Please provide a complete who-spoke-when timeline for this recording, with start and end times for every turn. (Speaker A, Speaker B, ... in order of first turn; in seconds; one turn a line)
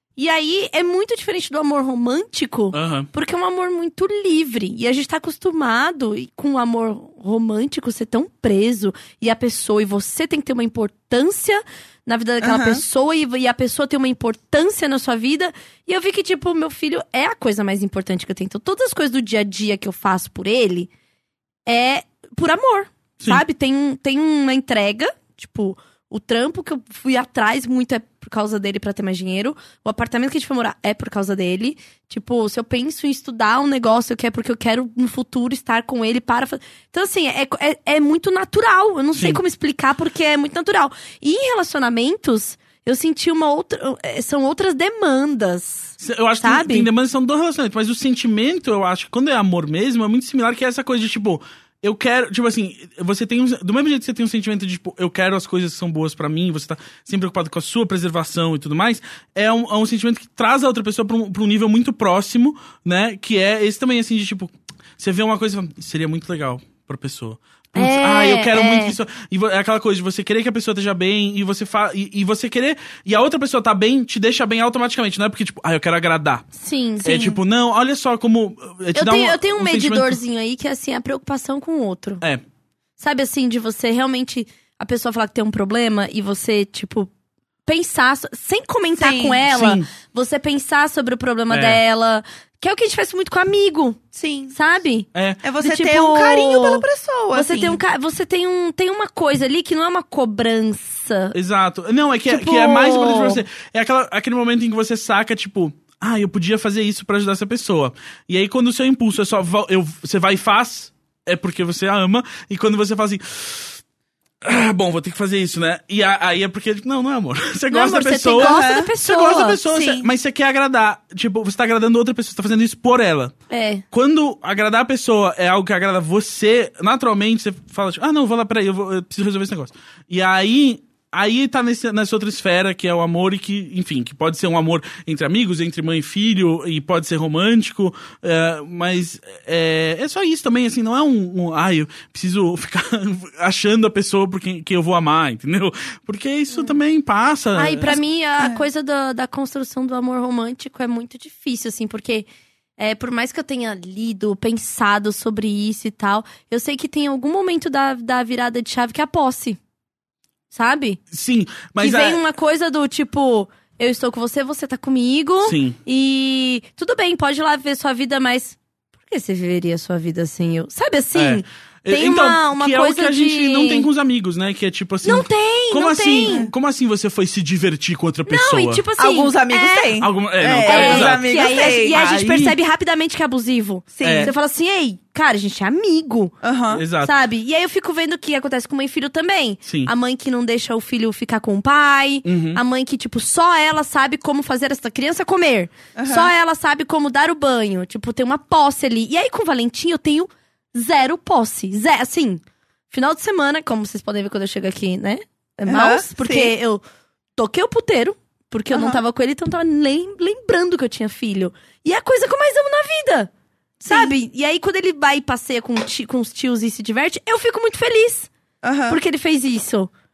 Speaker A: 0.2-20.9
Speaker B: 2.7-3.1
Speaker C: 12.4-12.8
Speaker A: 21.7-46.9
Speaker B: 46.0-76.5
Speaker A: 67.8-69.0
Speaker A: 76.6-77.3
Speaker B: 77.0-80.2
Speaker C: 77.1-77.4
Speaker A: 78.9-82.2
Speaker A: 83.0-87.1
Speaker A: 87.7-94.0
Speaker C: 89.0-89.4
Speaker B: 89.5-89.9
Speaker B: 91.5-91.8
Speaker C: 94.1-94.6
Speaker A: 94.5-95.1
Speaker B: 95.1-95.4
Speaker C: 95.4-97.8
Speaker A: 95.6-101.4
Speaker B: 101.3-113.8
Speaker A: 102.3-103.4
Speaker B: 114.4-123.3
Speaker A: 117.7-119.6
Speaker C: 118.4-118.9
Speaker C: 119.7-120.1
Speaker A: 123.5-123.8
Speaker B: 123.9-148.0
Speaker A: 147.6-152.3
Speaker C: 148.4-148.6
Speaker A: 152.8-159.6
Speaker A: 160.5-161.0
Speaker B: 161.1-162.2
Speaker A: 161.8-173.9
Speaker B: 165.4-165.8
Speaker B: 171.2-178.8
Speaker A: 175.0-176.5
Speaker A: 178.3-180.0
Speaker C: 179.0-182.0
Speaker B: 180.0-182.6
Speaker A: 180.6-186.3
Speaker C: 183.9-184.3
Speaker B: 184.0-184.3
Speaker C: 186.4-186.8
Speaker B: 186.7-187.2
Speaker A: 187.0-206.8
Speaker B: 189.7-189.9
Speaker B: 192.2-192.6
Speaker C: 196.0-196.3
Speaker C: 205.7-206.5
Speaker A: 207.4-213.3
Speaker C: 208.7-209.0
Speaker C: 213.8-214.1
Speaker A: 213.8-218.3
Speaker C: 218.6-219.0
Speaker A: 218.9-219.9